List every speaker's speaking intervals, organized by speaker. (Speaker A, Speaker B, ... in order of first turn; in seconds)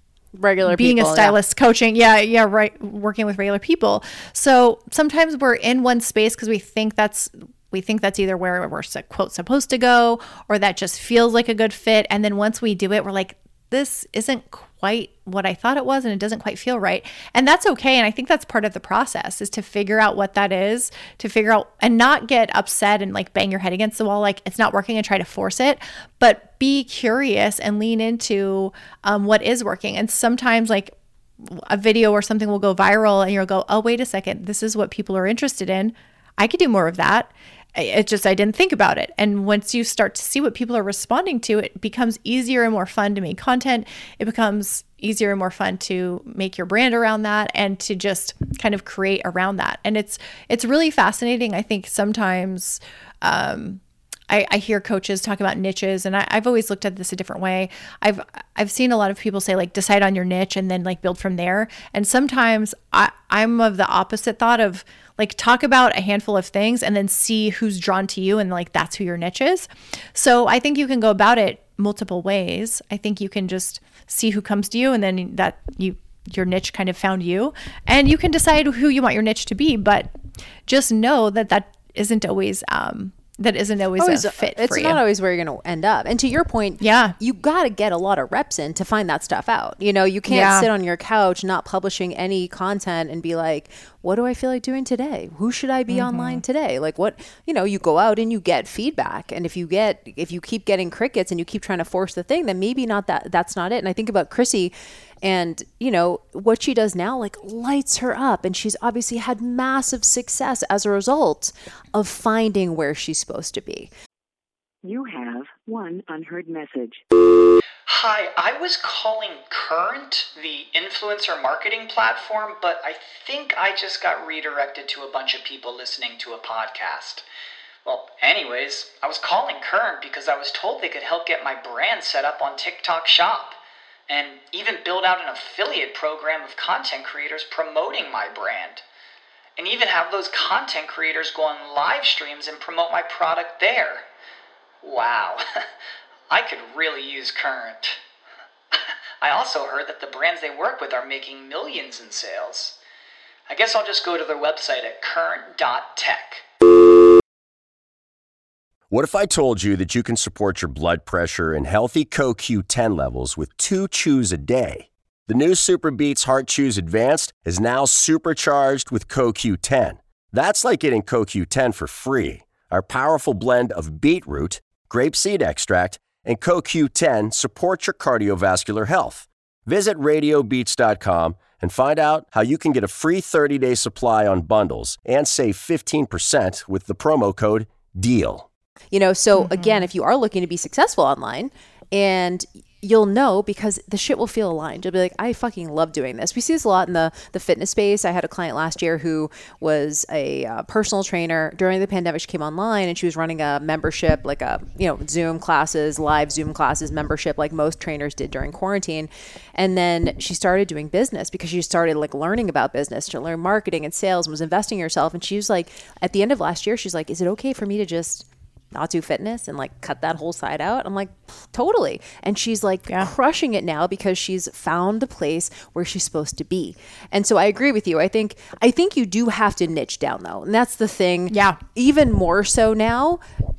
Speaker A: 0.4-1.4, 84.0-113.9, 188.9-233.2
Speaker B: 0.6-80.1, 80.7-85.0, 86.8-87.2, 90.3-90.7, 95.9-96.4, 189.4-189.8, 231.3-231.6
Speaker C: 114.8-117.0
Speaker D: 117.9-127.2, 127.8-138.8, 139.6-144.0, 144.8-145.4, 146.3-148.0, 149.2-152.8, 153.5-156.4
Speaker E: 158.9-188.4